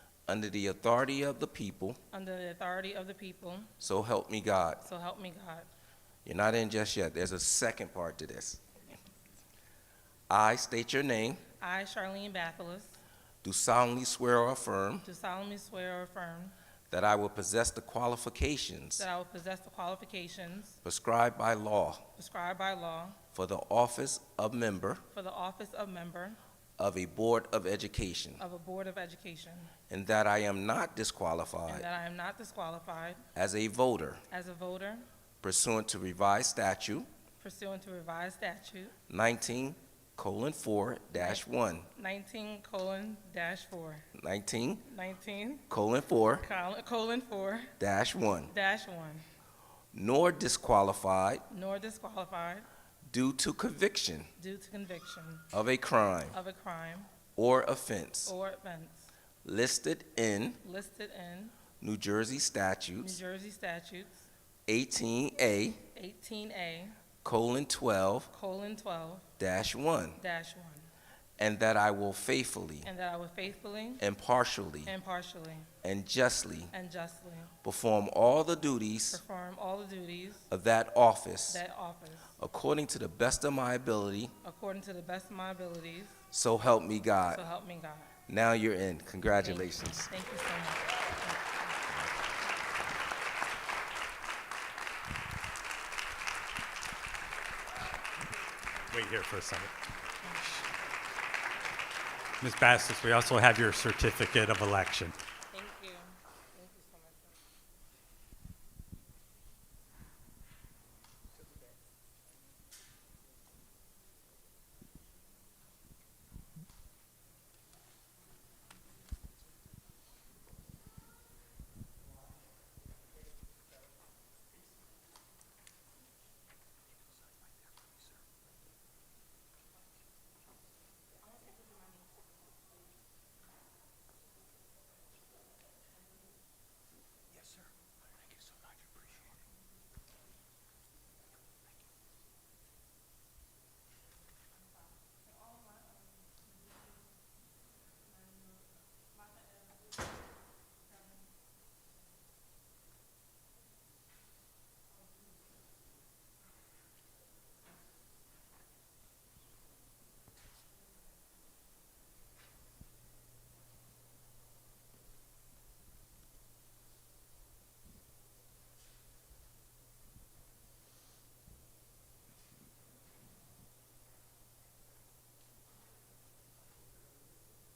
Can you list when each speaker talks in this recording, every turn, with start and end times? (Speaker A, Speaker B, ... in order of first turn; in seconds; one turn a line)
Speaker A: 0.3-2.0
Speaker B: 2.1-3.7
Speaker A: 3.8-4.8
Speaker B: 4.8-5.7
Speaker A: 6.2-8.6
Speaker A: 10.3-11.4
Speaker B: 11.6-13.0
Speaker A: 13.4-15.1
Speaker B: 15.0-16.6
Speaker A: 16.9-19.1
Speaker B: 19.0-20.8
Speaker A: 20.8-22.0
Speaker B: 22.1-23.2
Speaker A: 23.3-25.0
Speaker B: 25.1-26.4
Speaker A: 26.8-28.4
Speaker B: 28.4-29.7
Speaker A: 29.9-31.9
Speaker B: 31.7-33.2
Speaker A: 33.3-34.2
Speaker B: 34.3-35.1
Speaker A: 35.4-37.1
Speaker B: 37.4-38.9
Speaker A: 39.1-41.9
Speaker B: 41.1-41.4
Speaker B: 41.9-44.0
Speaker A: 44.1-44.8
Speaker B: 44.8-45.6
Speaker A: 45.7-46.4
Speaker B: 46.4-47.7
Speaker A: 47.8-48.5
Speaker B: 48.5-49.2
Speaker A: 49.9-51.4
Speaker B: 51.5-52.7
Speaker A: 53.0-54.3
Speaker B: 54.4-55.5
Speaker A: 55.5-56.4
Speaker B: 56.3-57.1
Speaker A: 57.3-58.3
Speaker B: 58.2-59.1
Speaker A: 59.4-60.6
Speaker B: 60.6-61.6
Speaker A: 61.8-63.2
Speaker B: 63.0-64.3
Speaker A: 64.7-65.8
Speaker B: 65.9-67.0
Speaker A: 67.2-68.3
Speaker B: 68.3-69.3
Speaker A: 69.4-70.2
Speaker B: 70.2-70.9
Speaker A: 71.4-72.9
Speaker B: 72.8-74.0
Speaker A: 74.0-74.9
Speaker B: 74.8-75.7
Speaker A: 75.8-76.7
Speaker B: 76.7-77.5
Speaker A: 77.6-79.2
Speaker B: 79.1-80.5
Speaker A: 80.5-81.6
Speaker B: 81.5-82.3
Speaker A: 82.4-84.3
Speaker B: 84.4-86.2
Speaker A: 86.3-87.4
Speaker B: 87.3-88.1
Speaker A: 88.3-90.1
Speaker B: 89.3-91.8
Speaker C: 98.9-99.7
Speaker C: 102.4-105.1
Speaker B: 105.5-107.3
Speaker B: 131.5-131.8